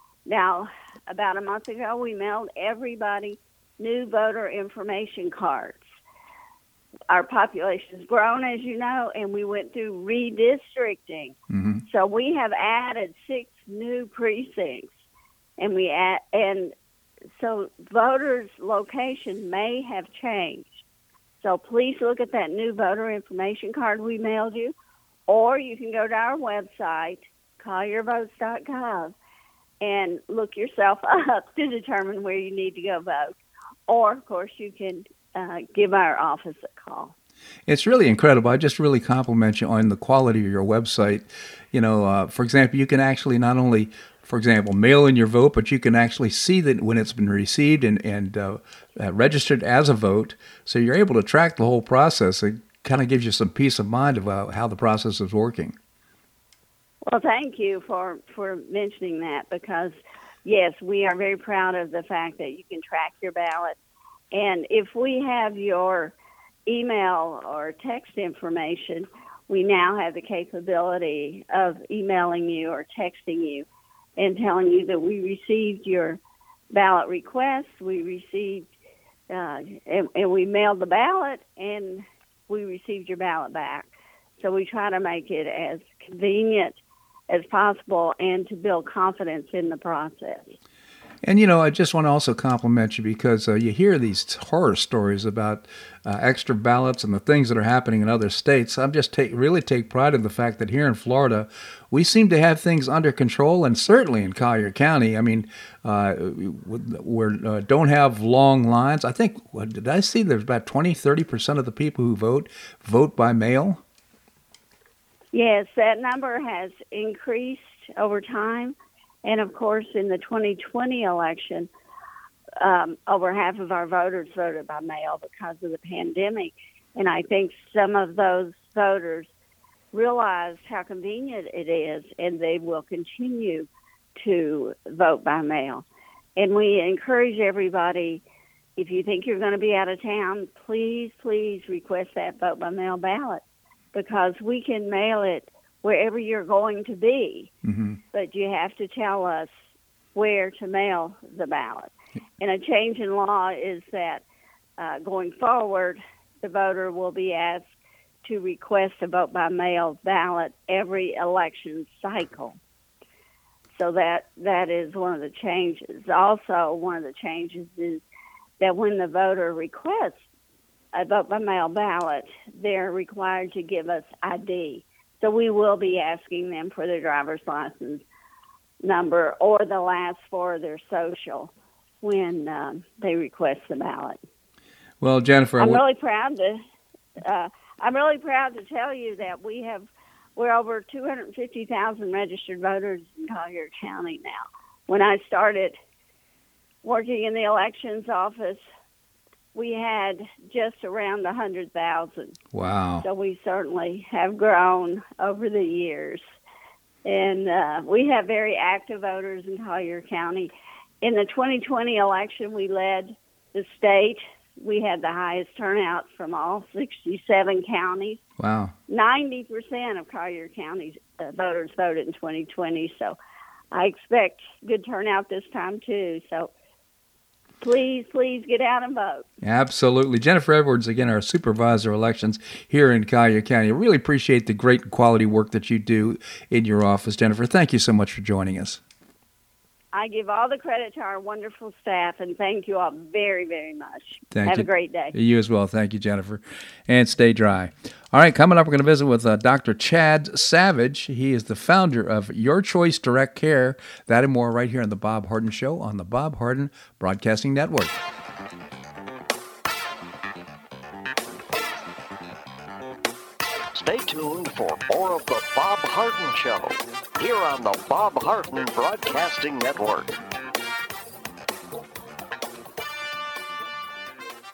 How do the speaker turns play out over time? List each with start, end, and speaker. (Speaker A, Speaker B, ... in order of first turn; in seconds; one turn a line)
Speaker A: 0.3-5.8
Speaker A: 7.1-11.4
Speaker B: 11.5-11.8
Speaker A: 11.9-14.9
Speaker A: 15.6-16.7
Speaker A: 17.4-20.7
Speaker A: 21.4-24.7
Speaker A: 25.3-29.1
Speaker A: 29.8-33.4
Speaker A: 33.9-37.1
Speaker B: 37.7-55.8
Speaker A: 57.1-63.8
Speaker A: 64.3-66.2
Speaker A: 66.7-76.2
Speaker A: 76.7-78.7
Speaker A: 79.3-83.9
Speaker A: 84.4-86.8
Speaker A: 87.3-90.6
Speaker B: 91.2-113.8
Speaker A: 115.3-121.7
Speaker A: 122.6-129.3
Speaker A: 129.9-133.7
Speaker A: 134.2-135.8
Speaker A: 136.4-138.2
Speaker A: 138.8-143.4
Speaker A: 143.9-147.5
Speaker B: 147.7-148.0
Speaker A: 148.1-149.5
Speaker A: 150.2-154.2
Speaker A: 154.8-157.7
Speaker A: 158.2-162.6
Speaker A: 163.8-168.0
Speaker A: 168.6-170.2
Speaker A: 170.9-178.0
Speaker A: 178.8-184.2
Speaker B: 185.0-185.8
Speaker A: 185.6-186.6
Speaker A: 187.2-195.8
Speaker A: 196.8-198.6
Speaker A: 199.5-202.4
Speaker B: 202.5-203.1
Speaker A: 203.0-206.2
Speaker A: 207.1-210.5
Speaker A: 211.0-218.2
Speaker B: 218.4-218.8
Speaker A: 218.9-223.2
Speaker A: 223.7-226.5
Speaker A: 227.6-229.2
Speaker B: 229.4-238.8
Speaker A: 239.9-245.1
Speaker B: 244.3-258.0
Speaker C: 263.7-270.1